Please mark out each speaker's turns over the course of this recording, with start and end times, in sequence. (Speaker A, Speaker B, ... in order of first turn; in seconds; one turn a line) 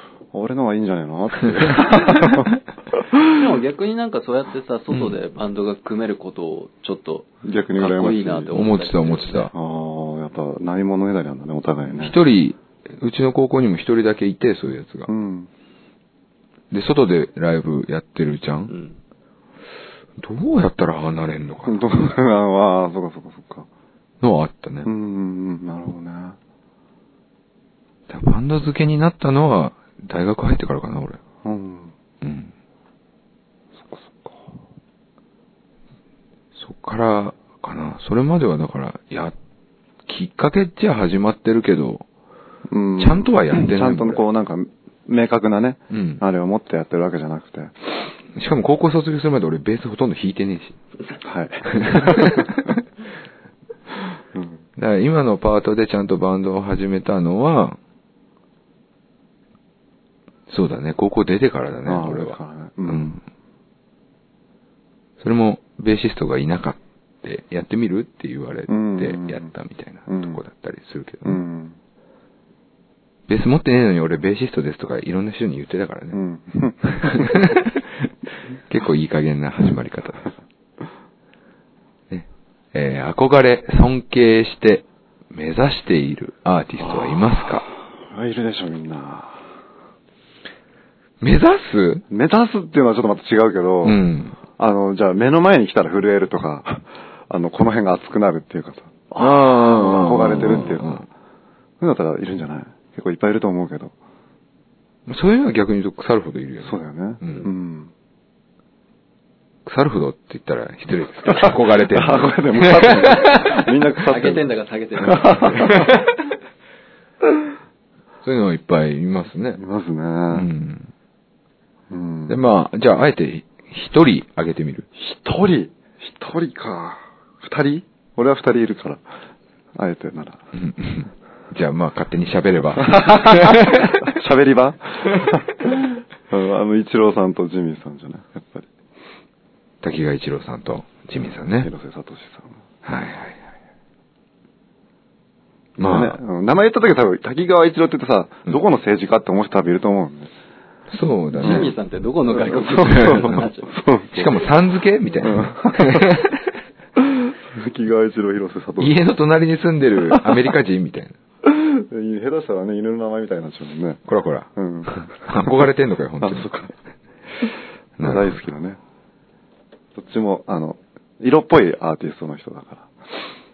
Speaker A: 0.3-2.5
Speaker B: 3.2-9.5
Speaker C: 4.9-5.2
Speaker A: 7.4-8.6
Speaker C: 8.5-9.5
Speaker A: 9.5-12.2
Speaker C: 11.9-15.1
Speaker A: 15.1-15.5
Speaker C: 16.7-18.7
Speaker B: 18.7-19.0
Speaker C: 20.2-22.1
Speaker A: 21.6-23.7
Speaker C: 24.2-24.9
Speaker A: 24.8-26.4
Speaker C: 28.1-31.2
Speaker A: 31.4-31.9
Speaker C: 32.2-32.5
Speaker A: 33.8-34.6
Speaker C: 36.5-39.3
Speaker C: 40.0-42.0
Speaker A: 42.7-48.1
Speaker C: 43.0-44.2
Speaker C: 45.9-46.2
Speaker C: 48.3-50.8
Speaker A: 51.2-52.6
Speaker C: 51.8-52.8
Speaker A: 54.3-54.6
Speaker C: 54.8-57.8
Speaker C: 60.5-63.2
Speaker A: 61.9-63.2
Speaker C: 65.2-71.4
Speaker A: 68.7-69.5
Speaker A: 70.1-70.4
Speaker A: 71.2-71.8
Speaker C: 73.3-76.2
Speaker A: 76.1-77.4
Speaker C: 76.9-78.1
Speaker C: 78.6-80.3
Speaker C: 82.1-87.7
Speaker A: 86.8-89.4
Speaker C: 91.2-92.0
Speaker A: 92.1-94.0
Speaker C: 93.8-94.4
Speaker A: 94.6-101.0
Speaker C: 99.2-101.0
Speaker A: 101.8-103.9
Speaker C: 105.0-107.5
Speaker A: 106.6-107.9
Speaker C: 109.6-113.5
Speaker A: 111.3-114.5
Speaker B: 114.0-115.8
Speaker A: 115.0-115.9
Speaker C: 118.2-119.6
Speaker A: 119.6-120.5
Speaker C: 120.3-120.9
Speaker A: 121.9-122.4
Speaker C: 122.3-124.9
Speaker A: 125.0-129.0
Speaker A: 129.8-130.4
Speaker C: 130.5-134.0
Speaker A: 132.8-138.7
Speaker C: 139.8-141.7
Speaker A: 141.6-142.6
Speaker C: 142.8-143.4
Speaker A: 145.8-150.3
Speaker C: 145.8-146.2
Speaker C: 150.9-151.7
Speaker A: 151.4-151.7
Speaker B: 151.4-153.8
Speaker A: 152.3-154.5
Speaker C: 152.7-153.4
Speaker C: 154.1-156.5
Speaker A: 155.2-156.1
Speaker A: 157.0-159.0
Speaker C: 158.8-161.2
Speaker A: 161.4-164.0
Speaker C: 164.1-166.5
Speaker A: 164.5-165.5
Speaker A: 166.2-166.7
Speaker C: 168.0-168.4
Speaker A: 168.0-168.8
Speaker A: 169.9-173.2